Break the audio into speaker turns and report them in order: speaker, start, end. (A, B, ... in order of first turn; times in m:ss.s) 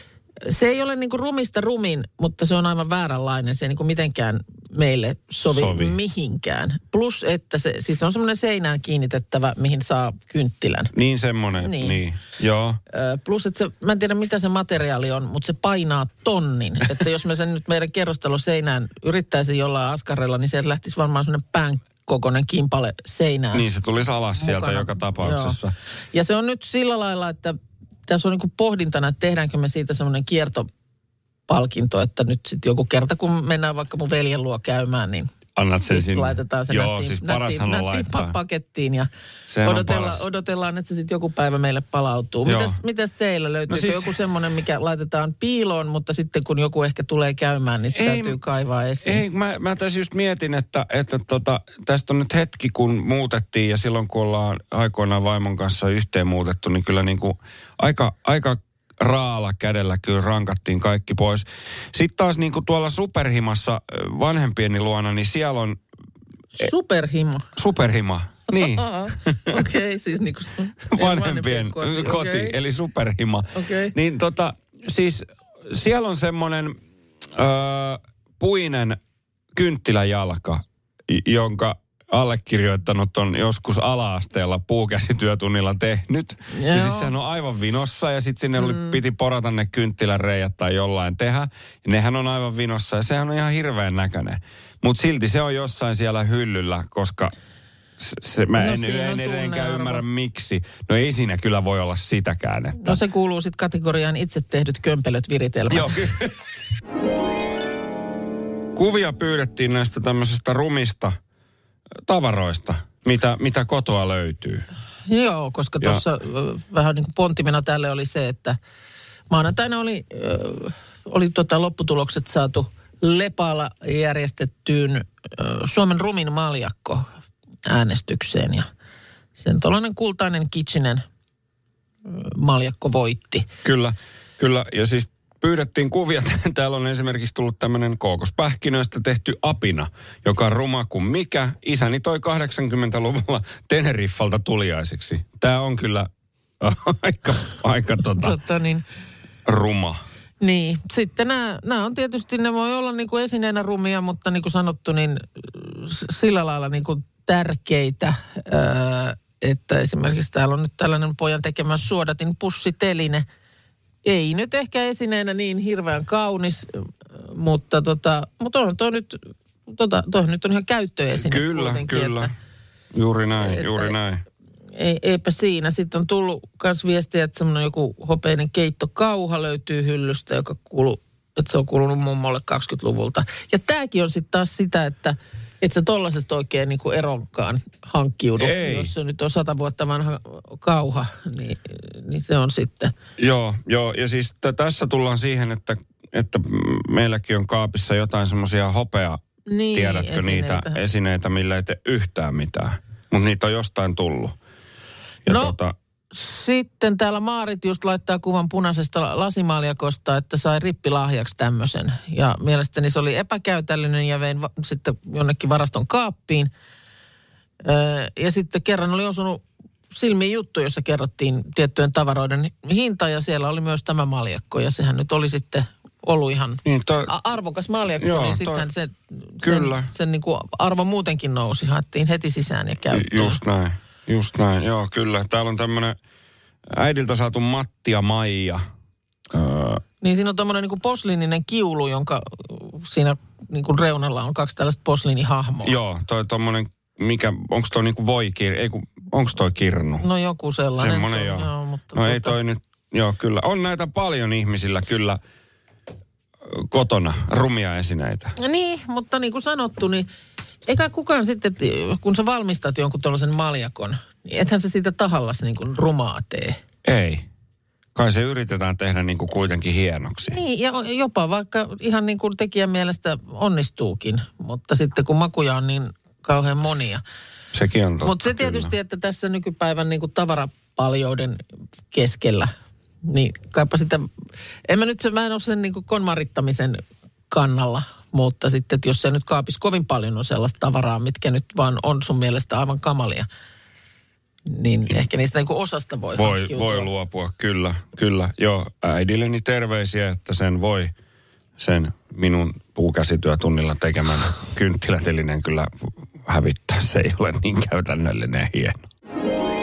0:00.4-0:10.9 A
0:05.4-0:06.0 B
0:10.9-0:12.8 B
0:11.6-0:12.0 A
0:12.9-0:23.6 A
0:23.5-0:25.7 B
0:24.4-0:25.6 A
0:26.1-0:30.7 A
0:31.5-0:35.3 A
0:35.6-0:38.4 B
0:35.9-0:39.1 A
0:39.5-0:40.2 B
0:39.6-0:49.2 A
0:42.4-0:42.8 B
0:43.7-0:44.1 B
0:48.0-0:48.4 B
0:49.0-1:05.8 B
1:06.5-1:07.5 A
1:07.6-1:09.6 B
1:08.5-1:12.6 A
1:10.9-1:16.8 B
1:13.5-1:13.9 A
1:17.3-1:19.0 B
1:19.5-1:37.3 B
1:26.5-1:27.1 A
1:28.6-1:29.0 A
1:38.0-1:43.0 B
1:38.6-1:40.0 A
1:42.8-1:46.0 A
1:45.7-1:46.4 B
1:48.8-1:51.2 B
1:52.0-1:54.7 B
1:55.1-1:58.6 A
1:59.3-2:07.1 A
2:07.7-2:08.7 A
2:09.4-2:11.0 A
2:12.1-2:13.5 A
2:13.6-2:28.4 B
2:28.2-2:28.8 A
2:29.5-2:30.0 B
2:30.4-2:43.3 A
2:44.0-2:52.3 A
2:51.2-2:52.3 B
2:52.9-2:54.2 B
2:53.4-2:54.0 A
2:54.8-3:12.9 A
3:08.4-3:08.9 B
3:13.2-3:19.2 B
3:19.5-3:20.8 A
3:19.7-3:24.4 B
3:25.2-3:25.8 B
3:25.3-3:25.6 A
3:26.1-3:36.5 A
3:37.6-3:53.4 A
3:46.6-3:47.1 B
3:48.0-3:48.7 B
3:49.4-3:49.9 B
3:52.9-3:56.0 B
3:56.7-3:58.6 B
3:59.3-3:59.8 B
4:00.0-4:05.8 A
4:05.6-4:10.0 B
4:10.0-4:12.4 A
4:10.8-4:15.2 B
4:16.5-4:18.3 B
4:18.4-4:20.1 A
4:20.7-4:26.6 A
4:26.8-4:27.3 B
4:28.0-4:30.4 B
4:30.3-4:37.0 A
4:37.5-4:38.7 B
4:38.0-4:42.5 A
4:43.0-4:44.1 A
4:44.7-4:53.3 A
4:54.5-4:56.9 A
4:56.2-5:00.9 B
5:01.6-5:08.8 B